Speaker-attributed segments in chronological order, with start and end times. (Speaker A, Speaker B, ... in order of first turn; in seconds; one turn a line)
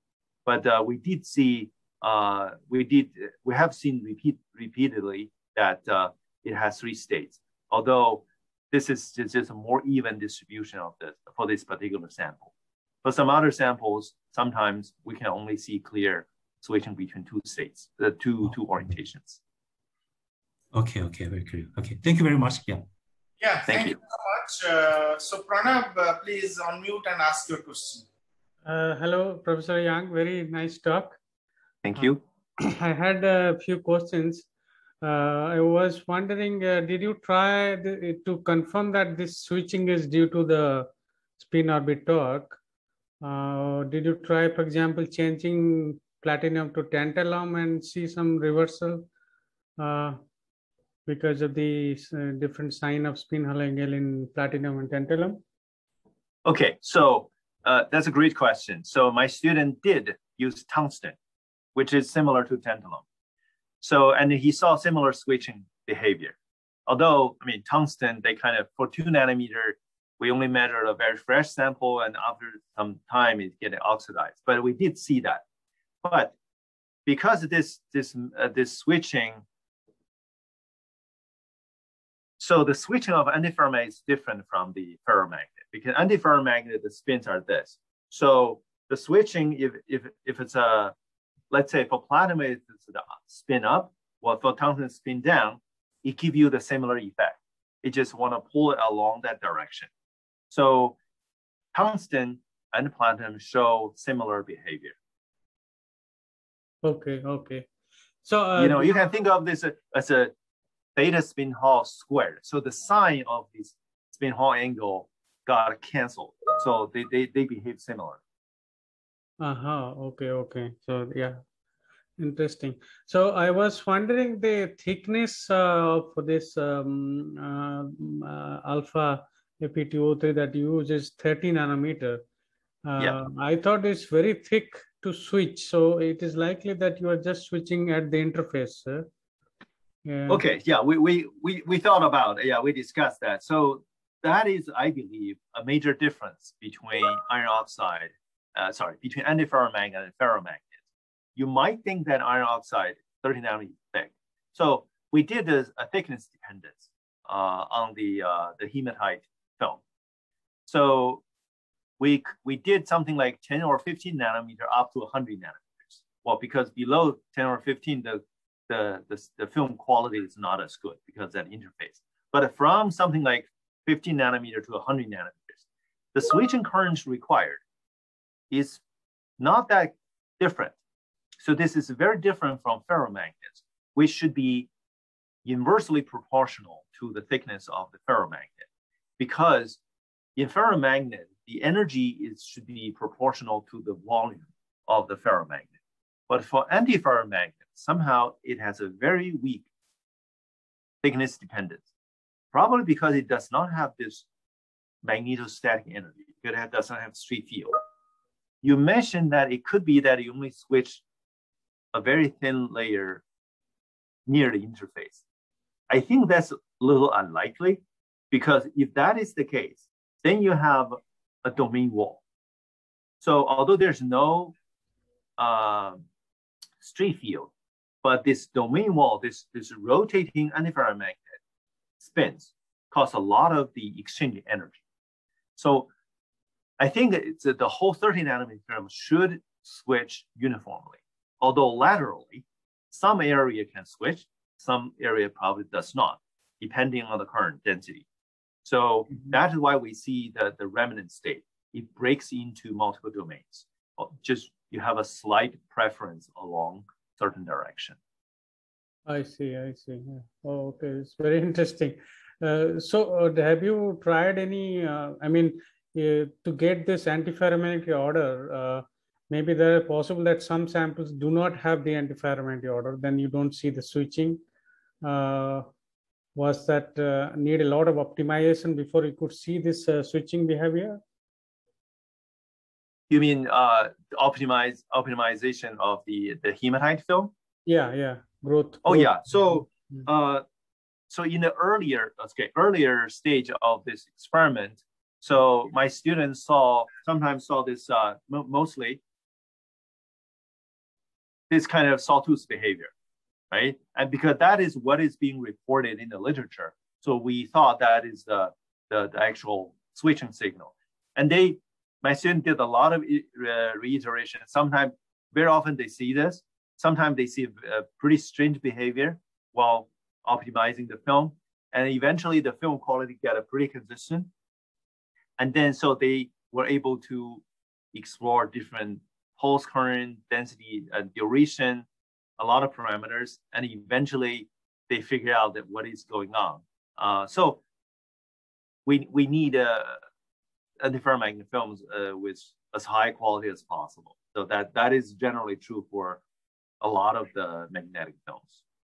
Speaker A: 0.5-12.5
Speaker A: 13.0-19.4
Speaker B: 20.7-22.8
Speaker C: 23.4-28.1
Speaker A: 23.7-24.0
Speaker D: 28.6-31.2
Speaker A: 31.8-32.2
Speaker D: 32.6-34.5
Speaker D: 35.0-40.9
Speaker D: 41.4-42.6
Speaker D: 43.2-49.1
Speaker D: 49.8-50.2
Speaker D: 51.1-55.4
Speaker A: 56.5-61.2
Speaker A: 61.8-63.0
Speaker A: 63.8-66.3
Speaker A: 66.9-75.4
Speaker A: 76.0-76.3
Speaker A: 77.1-79.4
Speaker A: 82.4-91.0
Speaker A: 91.5-99.9
Speaker A: 100.5-101.0
Speaker A: 101.7-105.0
Speaker D: 106.8-107.7
Speaker D: 108.2-108.9
Speaker A: 108.6-110.3
Speaker A: 111.0-118.2
Speaker D: 119.4-121.4
Speaker D: 122.2-132.2
Speaker D: 132.9-139.1
Speaker D: 140.1-140.4
Speaker A: 140.3-150.8
Speaker A: 151.4-159.8
Speaker A: 160.7-161.2
Speaker A: 162.0-175.6
Speaker A: 176.2-177.6
Speaker A: 178.5-178.8
Speaker A: 179.4-180.8
Speaker A: 181.4-184.7
Speaker A: 185.4-188.7
Speaker A: 189.2-189.8
Speaker A: 190.4-195.7
Speaker A: 196.3-199.7
Speaker A: 201.0-201.8
Speaker A: 202.5-204.3
Speaker A: 205.0-207.8
Speaker A: 208.6-211.0
Speaker A: 211.9-213.2
Speaker A: 214.3-215.2
Speaker A: 215.9-222.2
Speaker A: 223.2-224.6
Speaker A: 225.4-226.0
Speaker A: 226.8-227.5
Speaker A: 228.0-231.4
Speaker A: 232.0-234.8
Speaker A: 235.6-235.9
Speaker A: 236.8-248.1
Speaker A: 248.6-258.0
Speaker D: 259.1-274.4
Speaker D: 275.0-275.7
Speaker D: 276.4-281.0
Speaker A: 283.1-287.3
Speaker D: 287.7-290.0
Speaker A: 288.8-290.4
Speaker A: 291.1-299.0
Speaker A: 301.5-302.9
Speaker A: 303.5-324.3
Speaker A: 325.4-331.9
Speaker A: 332.4-337.6
Speaker A: 338.9-340.0
Speaker A: 340.8-346.2
Speaker A: 346.8-348.6